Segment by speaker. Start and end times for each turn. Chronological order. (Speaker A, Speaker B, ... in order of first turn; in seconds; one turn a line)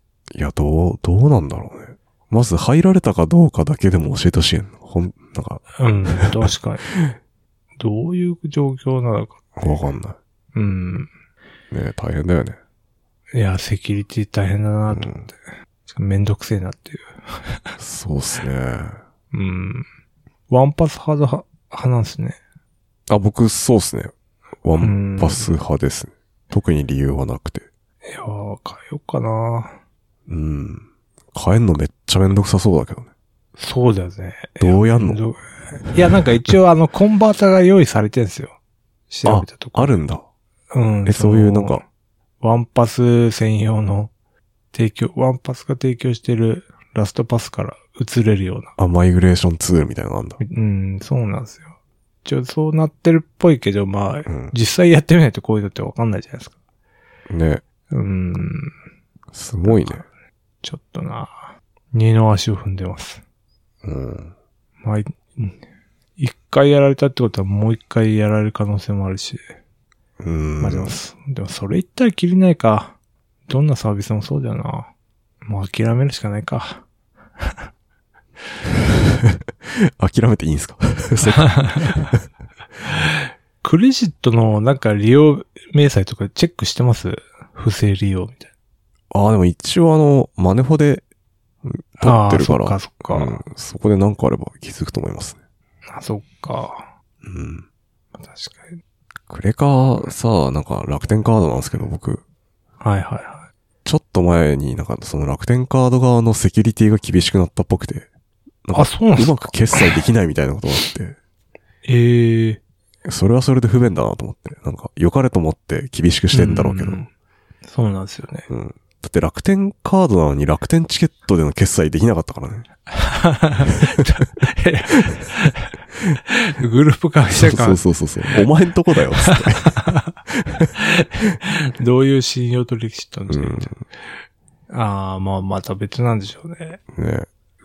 Speaker A: 0.3-6.3
Speaker B: 5.8-6.8
Speaker B: 7.8-9.8
Speaker A: 9.6-10.2
Speaker B: 10.5-11.1
Speaker A: 11.7-12.6
Speaker B: 13.3-17.8
Speaker A: 14.9-15.2
Speaker A: 17.8-19.0
Speaker B: 19.3-19.9
Speaker B: 20.5-22.4
Speaker A: 23.1-27.6
Speaker B: 24.8-25.6
Speaker B: 28.0-29.7
Speaker A: 30.3-33.1
Speaker B: 33.6-38.5
Speaker A: 34.6-35.2
Speaker B: 39.1-40.0
Speaker A: 39.2-40.2
Speaker B: 40.7-41.8
Speaker A: 41.0-41.8
Speaker B: 42.4-44.1
Speaker B: 44.7-48.7
Speaker A: 48.8-50.4
Speaker B: 50.4-51.7
Speaker B: 52.2-56.5
Speaker A: 54.3-54.5
Speaker A: 57.3-57.6
Speaker B: 57.9-58.7
Speaker A: 59.3-60.0
Speaker B: 59.6-60.0
Speaker B: 60.6-63.2
Speaker A: 63.8-64.3
Speaker B: 64.8-65.6
Speaker B: 66.2-69.4
Speaker A: 70.2-71.0
Speaker B: 70.6-72.9
Speaker B: 73.5-74.9
Speaker B: 75.4-76.8
Speaker A: 78.9-82.2
Speaker B: 81.4-81.8
Speaker B: 83.0-88.5
Speaker A: 89.1-91.0
Speaker A: 91.6-95.4
Speaker B: 92.0-93.4
Speaker B: 95.9-96.9
Speaker A: 97.2-97.6
Speaker B: 98.2-98.8
Speaker A: 99.3-102.2
Speaker B: 102.8-103.5
Speaker A: 103.8-108.1
Speaker A: 108.6-111.2
Speaker B: 108.7-110.0
Speaker B: 111.8-112.6
Speaker A: 113.0-117.0
Speaker B: 116.3-117.1
Speaker B: 117.7-118.5
Speaker A: 118.5-122.7
Speaker B: 122.9-125.7
Speaker B: 126.3-128.5
Speaker A: 127.3-130.7
Speaker B: 129.2-130.1
Speaker B: 130.7-133.8
Speaker A: 133.3-133.8
Speaker B: 134.7-136.8
Speaker A: 136.9-137.3